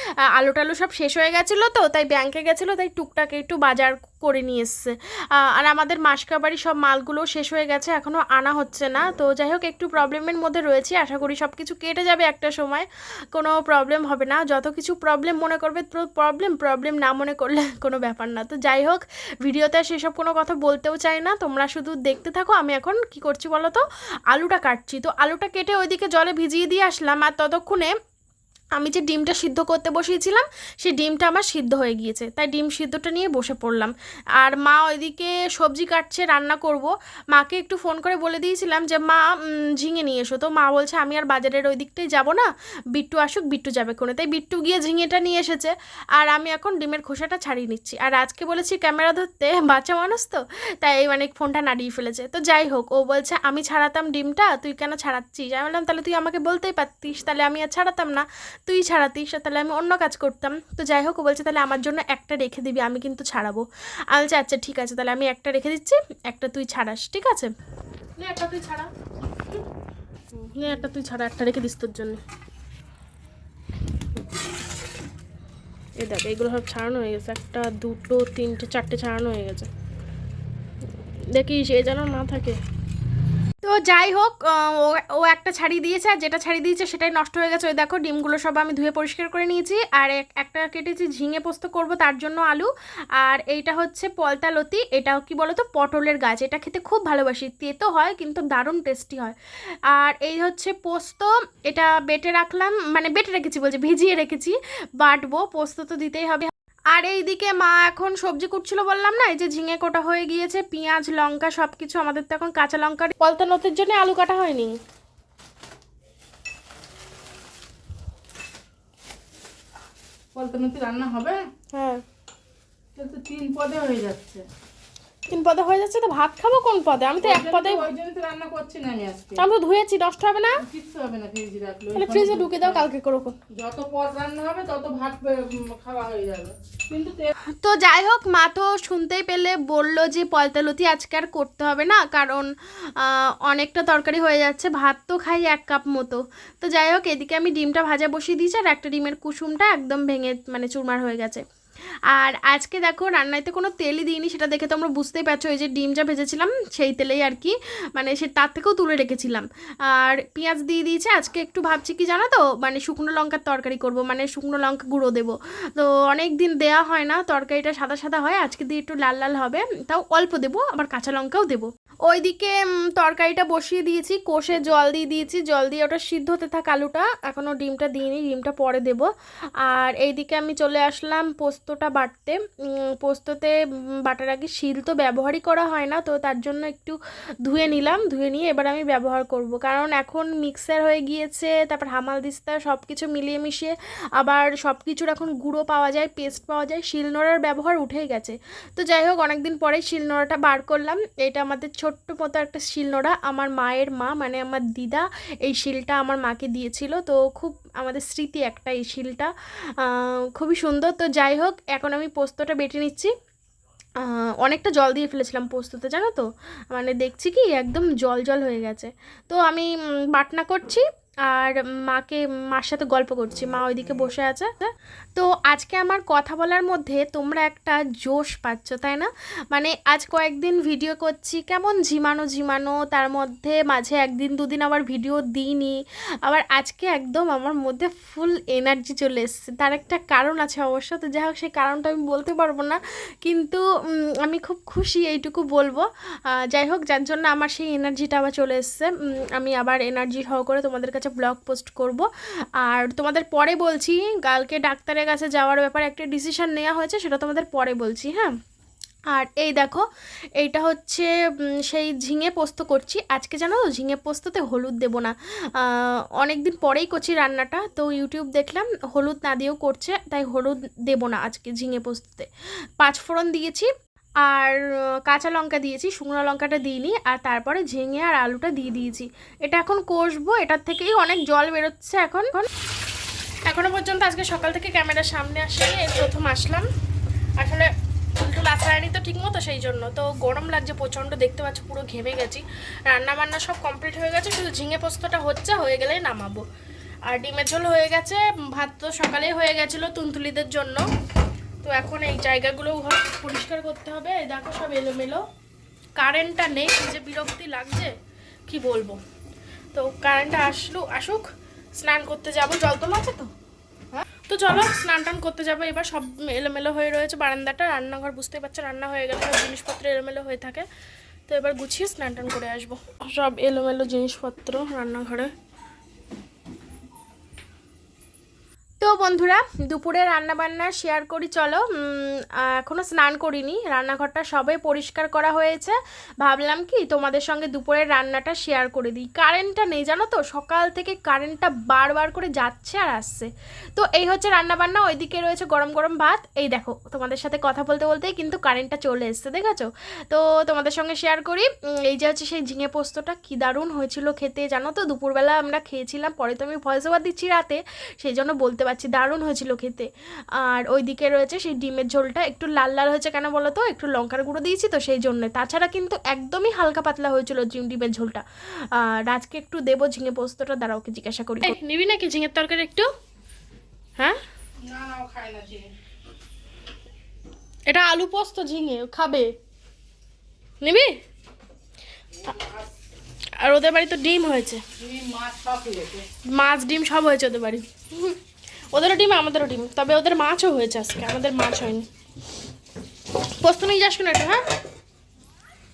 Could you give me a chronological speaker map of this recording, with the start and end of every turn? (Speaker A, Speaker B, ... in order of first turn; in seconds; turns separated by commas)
Speaker A: 0.3-27.9, Speaker A: 28.8-39.2, Speaker A: 39.8-67.5, Speaker A: 68.2-68.9, Speaker A: 70.3-72.2, Speaker A: 76.0-79.7, Speaker A: 81.3-82.6, Speaker A: 83.6-99.3, Speaker A: 99.9-114.7, Speaker B: 120.3-121.4, Speaker A: 121.7-122.0, Speaker B: 123.0-124.4, Speaker A: 125.3-127.9, Speaker B: 127.2-129.4, Speaker A: 129.4-130.6, Speaker B: 130.6-132.9, Speaker A: 131.9-133.3, Speaker B: 133.5-137.3, Speaker A: 137.6-151.4, Speaker A: 152.1-179.1, Speaker A: 179.6-182.4, Speaker A: 183.0-213.1, Speaker A: 214.0-243.6, Speaker A: 244.2-252.1, Speaker A: 252.6-258.3, Speaker A: 259.1-259.9, Speaker A: 260.4-272.3, Speaker A: 272.8-273.7, Speaker A: 274.2-282.5, Speaker A: 283.4-286.7, Speaker A: 287.4-296.4, Speaker A: 297.1-300.8, Speaker A: 301.6-305.2, Speaker A: 306.0-307.9, Speaker A: 308.5-309.0, Speaker A: 309.7-313.3, Speaker A: 313.9-320.6, Speaker A: 321.3-325.3, Speaker A: 328.8-372.9, Speaker B: 374.6-375.7, Speaker A: 377.7-379.3, Speaker A: 380.6-380.9, Speaker B: 382.2-382.6, Speaker A: 383.4-384.6, Speaker B: 384.8-386.1, Speaker A: 386.3-388.2, Speaker A: 388.7-391.9, Speaker A: 393.4-394.4